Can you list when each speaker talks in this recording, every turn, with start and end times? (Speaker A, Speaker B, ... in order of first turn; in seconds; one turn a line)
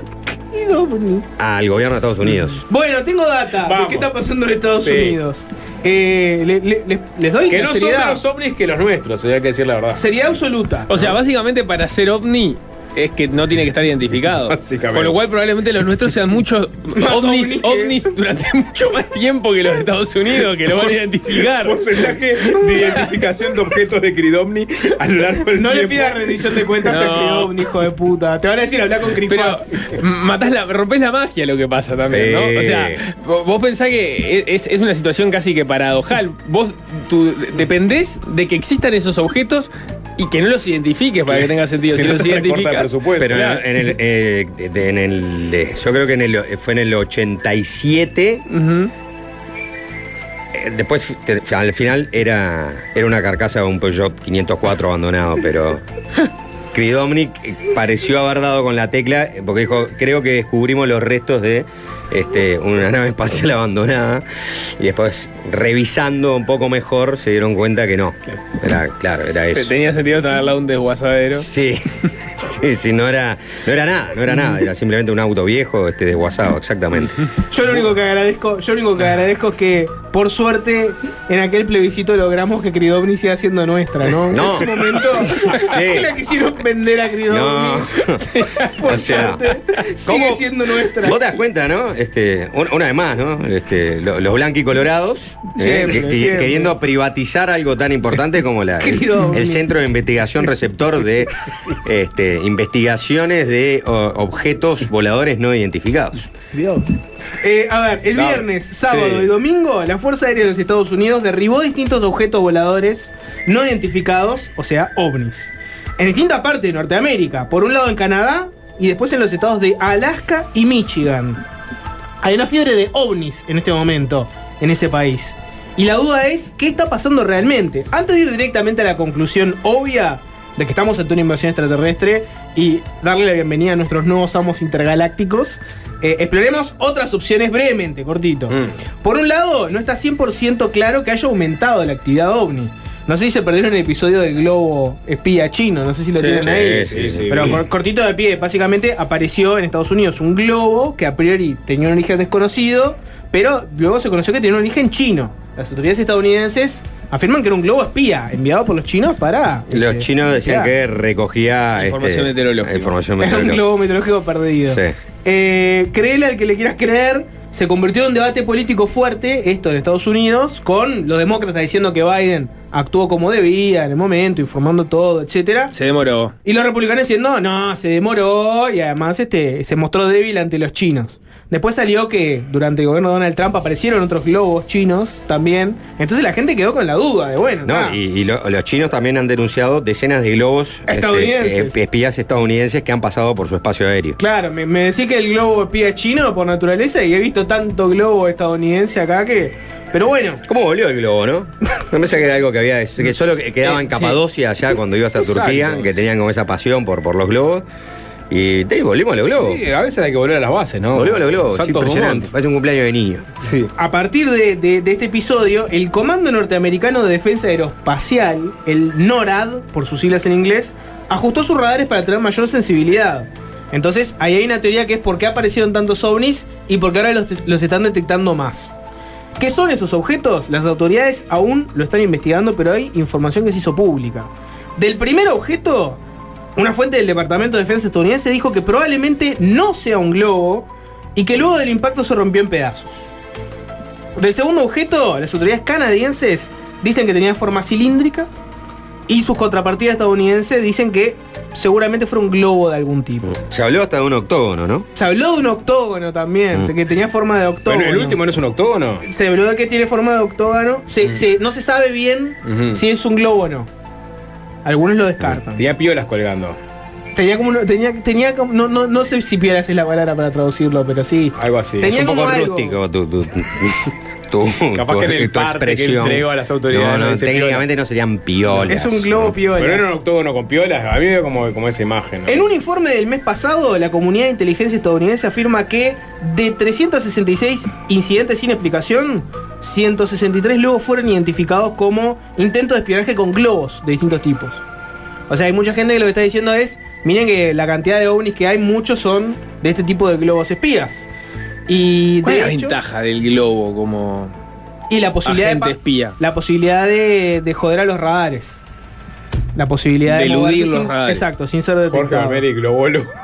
Speaker A: 0.3-1.3
Speaker B: 1.4-2.6
Speaker A: 2.7-8.2
Speaker C: 3.6-4.1
Speaker C: 4.8-5.2
Speaker C: 7.5-10.0
Speaker A: 9.9-10.9
Speaker D: 10.9-23.1
Speaker C: 14.5-15.1
Speaker A: 16.9-18.0
Speaker C: 20.7-26.4
Speaker A: 25.5-29.6
Speaker D: 26.8-27.6
Speaker D: 29.3-43.6
Speaker C: 32.1-33.0
Speaker C: 41.3-43.4
Speaker B: 43.2-48.4
Speaker D: 48.5-48.9
Speaker B: 50.5-55.8
Speaker B: 56.7-69.7
Speaker D: 69.5-71.5
Speaker B: 71.3-77.2
Speaker A: 77.5-88.0
Speaker C: 84.2-84.5
Speaker B: 84.3-86.1
Speaker B: 87.3-106.3
Speaker D: 88.2-89.0
Speaker A: 88.6-91.2
Speaker A: 95.5-96.7
Speaker A: 98.8-99.7
Speaker A: 106.5-121.4
Speaker B: 108.1-108.4
Speaker C: 108.9-109.3
Speaker A: 122.2-160.7
Speaker C: 138.5-138.8
Speaker B: 146.1-147.6
Speaker C: 146.6-147.6
Speaker B: 159.7-163.6
Speaker D: 161.8-162.9
Speaker A: 163.2-175.7
Speaker B: 164.7-164.9
Speaker D: 175.7-176.3
Speaker A: 176.4-188.0
Speaker B: 187.6-194.2
Speaker A: 190.9-191.8
Speaker A: 194.2-200.4
Speaker B: 200.4-207.6
Speaker C: 205.2-206.0
Speaker B: 208.3-209.6
Speaker C: 209.4-212.3
Speaker B: 210.9-213.3
Speaker C: 213.4-213.7
Speaker A: 213.8-228.7
Speaker A: 229.4-236.0
Speaker A: 236.6-243.0
Speaker A: 244.2-248.3
Speaker A: 249.1-253.3
Speaker B: 253.2-254.9
Speaker A: 254.9-258.2
Speaker C: 257.6-259.0
Speaker A: 259.0-263.7
Speaker C: 262.4-262.8
Speaker A: 264.6-265.6
Speaker C: 265.5-266.6
Speaker A: 267.1-272.8
Speaker C: 271.4-271.9
Speaker B: 271.8-279.4
Speaker C: 274.7-277.6
Speaker A: 278.6-279.8
Speaker C: 279.5-282.4
Speaker A: 282.3-294.6
Speaker A: 295.3-301.1
Speaker A: 301.7-302.7
Speaker D: 302.2-304.3
Speaker A: 304.9-308.6
Speaker D: 305.2-306.1
Speaker A: 309.5-312.4
Speaker D: 310.0-311.3
Speaker C: 311.9-313.1